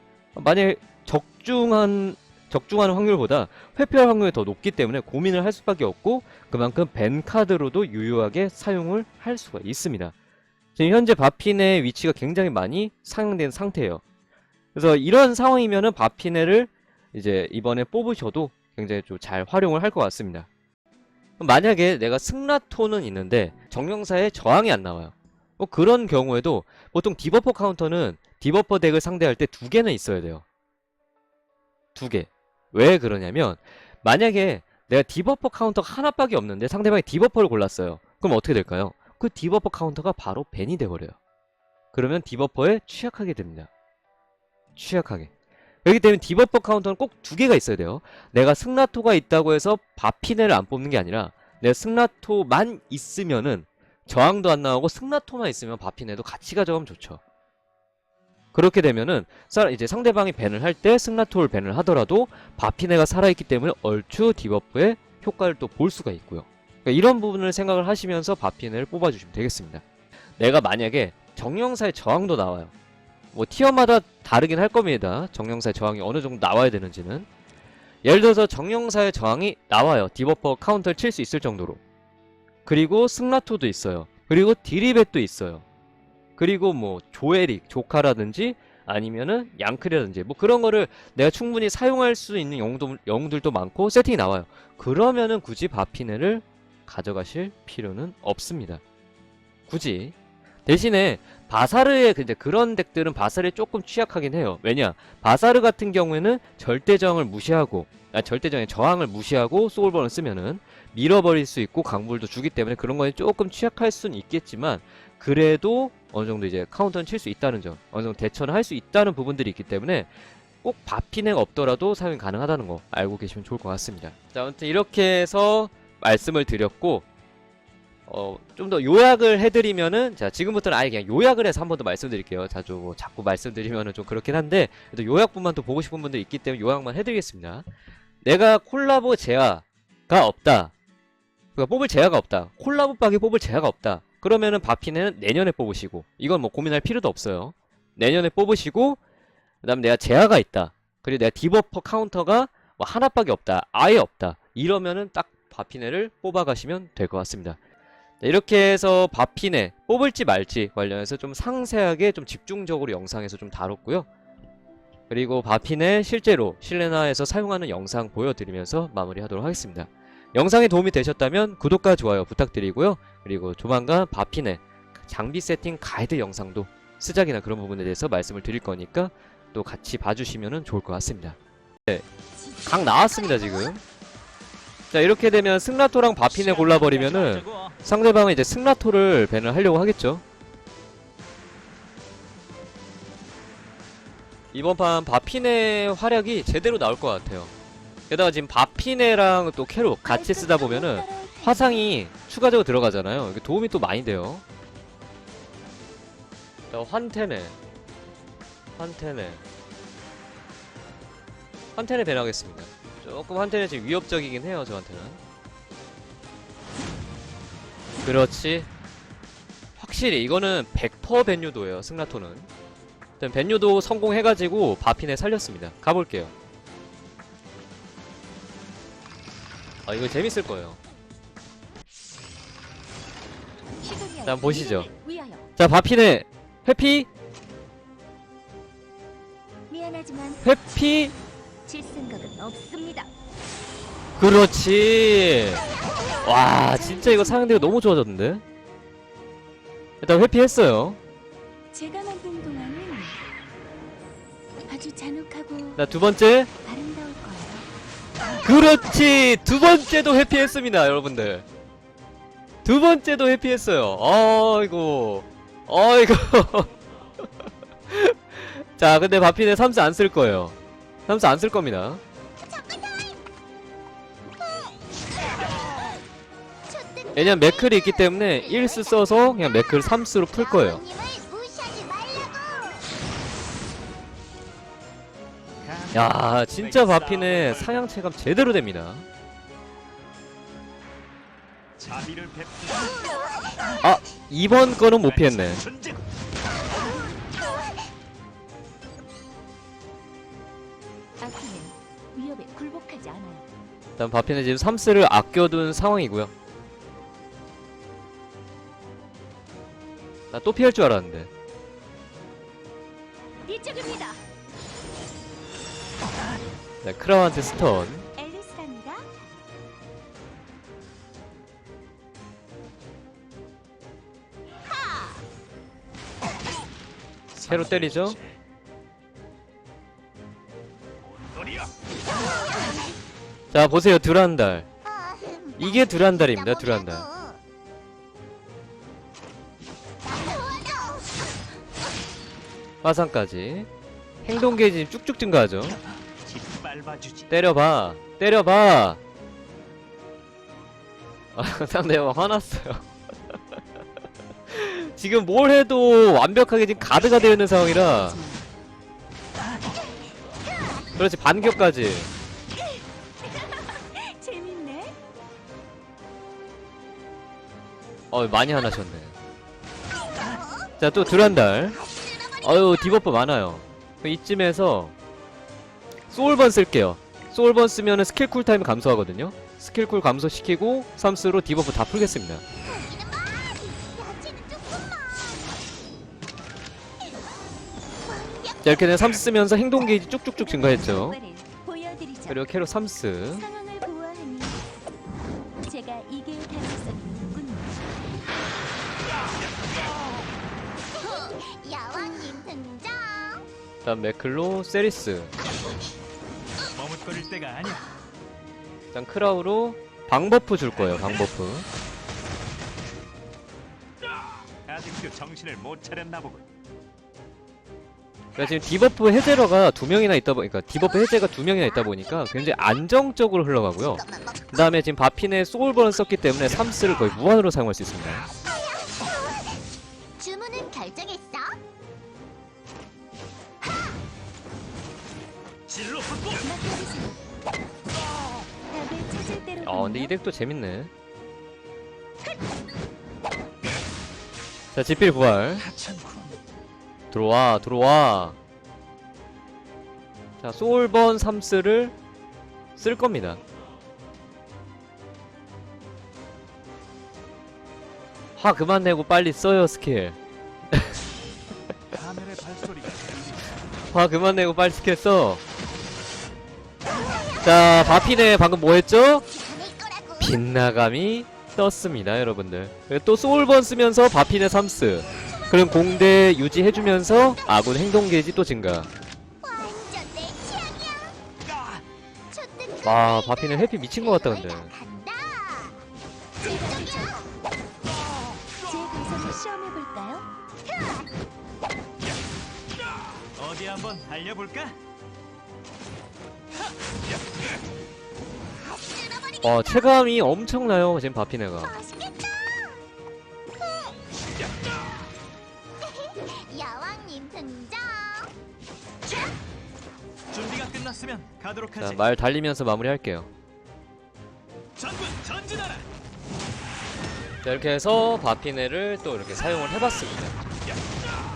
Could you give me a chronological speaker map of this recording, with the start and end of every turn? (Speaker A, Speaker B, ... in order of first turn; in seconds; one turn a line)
Speaker A: 0.3-10.1
Speaker A: 10.8-14.0
Speaker A: 14.8-20.5
Speaker A: 21.4-30.4
Speaker A: 31.9-41.2
Speaker A: 41.9-43.7
Speaker A: 44.8-45.3
Speaker A: 45.9-57.2
Speaker A: 58.5-69.8
Speaker A: 70.4-72.7
Speaker A: 73.3-77.3
Speaker A: 78.0-81.8
Speaker A: 82.7-85.6
Speaker A: 86.4-98.8
Speaker A: 99.7-100.1
Speaker A: 100.7-120.1
Speaker A: 120.6-127.1
Speaker A: 128.1-137.7
Speaker A: 138.2-140.7
Speaker A: 141.6-149.0
Speaker A: 149.6-157.6
Speaker A: 158.2-164.1
Speaker A: 165.1-182.0
Speaker B: 182.7-183.0
Speaker A: 182.7-183.8
Speaker A: 184.9-190.2
Speaker C: 186.3-187.8
Speaker A: 194.5-197.5
Speaker A: 198.1-204.4
Speaker B: 200.1-201.9
Speaker A: 206.7-207.6
Speaker A: 208.8-209.4
Speaker A: 211.8-215.2
Speaker A: 218.0-218.7
Speaker A: 219.8-222.5
Speaker A: 223.2-226.3
Speaker A: 229.9-230.8
Speaker B: 233.8-235.5
Speaker A: 234.2-234.9
Speaker A: 235.6-237.1
Speaker B: 239.7-240.4
Speaker A: 240.4-241.2
Speaker B: 241.7-243.1
Speaker A: 244.2-245.6
Speaker A: 246.2-248.4
Speaker B: 246.6-247.8
Speaker A: 250.0-251.0
Speaker B: 251.7-253.2
Speaker B: 254.7-255.8
Speaker A: 255.8-256.5
Speaker B: 256.6-257.7
Speaker A: 258.4-261.4
Speaker A: 262.6-266.7
Speaker A: 267.9-270.6
Speaker A: 271.1-272.0
Speaker D: 272.4-273.3
Speaker D: 274.3-276.0
Speaker D: 276.7-282.9
Speaker A: 277.1-280.8
Speaker C: 285.6-287.8
Speaker A: 285.9-289.1
Speaker C: 291.8-293.0
Speaker A: 293.8-295.6
Speaker C: 295.0-296.0
Speaker B: 301.2-303.5
Speaker A: 304.0-306.3
Speaker A: 310.3-311.3
Speaker B: 313.5-314.2
Speaker A: 316.8-318.1
Speaker B: 317.9-319.1
Speaker D: 324.6-325.2
Speaker C: 327.4-328.0
Speaker A: 327.4-328.2
Speaker D: 332.1-332.9
Speaker A: 333.5-334.7
Speaker D: 334.9-337.4
Speaker A: 335.6-337.1
Speaker D: 340.0-341.2
Speaker A: 342.8-343.7
Speaker A: 344.2-345.8
Speaker C: 346.2-347.3
Speaker A: 347.3-349.0
Speaker A: 351.4-352.9
Speaker A: 354.5-358.2
Speaker B: 357.2-358.5
Speaker A: 361.0-362.1
Speaker B: 363.3-365.0
Speaker A: 368.1-369.1
Speaker D: 370.2-370.7
Speaker A: 370.8-371.8
Speaker D: 371.9-372.4
Speaker A: 372.4-374.9
Speaker A: 376.1-382.4
Speaker D: 382.6-385.6
Speaker D: 388.0-388.9
Speaker A: 388.6-391.2
Speaker B: 390.4-392.4
Speaker A: 392.3-393.5
Speaker B: 393.3-394.6
Speaker B: 395.6-397.8
Speaker D: 400.9-403.5
Speaker A: 403.8-405.3
Speaker C: 406.7-407.9
Speaker A: 408.9-411.7
Speaker C: 414.7-416.4
Speaker A: 418.4-428.3
Speaker D: 423.9-424.6
Speaker D: 428.5-429.4
Speaker D: 430.2-431.6
Speaker C: 435.7-436.4
Speaker B: 436.3-437.2
Speaker B: 438.7-440.1
Speaker A: 439.6-440.9
Speaker A: 444.7-445.7
Speaker C: 445.8-446.4
Speaker A: 447.1-448.4
Speaker A: 450.4-451.9
Speaker A: 452.8-453.4
Speaker A: 458.4-460.2
Speaker A: 460.7-461.0
Speaker C: 461.9-463.5
Speaker A: 463.9-465.4
Speaker A: 467.4-469.3
Speaker D: 469.2-470.4
Speaker A: 470.2-478.9
Speaker D: 479.4-481.2
Speaker D: 482.3-485.8
Speaker A: 482.8-484.7
Speaker B: 486.4-487.2
Speaker D: 486.9-487.3
Speaker B: 488.6-490.3
Speaker D: 490.6-491.1
Speaker C: 493.4-494.8
Speaker D: 498.8-499.8
Speaker A: 499.4-501.8
Speaker D: 501.6-502.8
Speaker D: 503.6-504.0
Speaker D: 505.8-508.3
Speaker C: 510.3-512.0
Speaker A: 511.8-513.3
Speaker C: 514.8-515.9
Speaker A: 517.4-520.4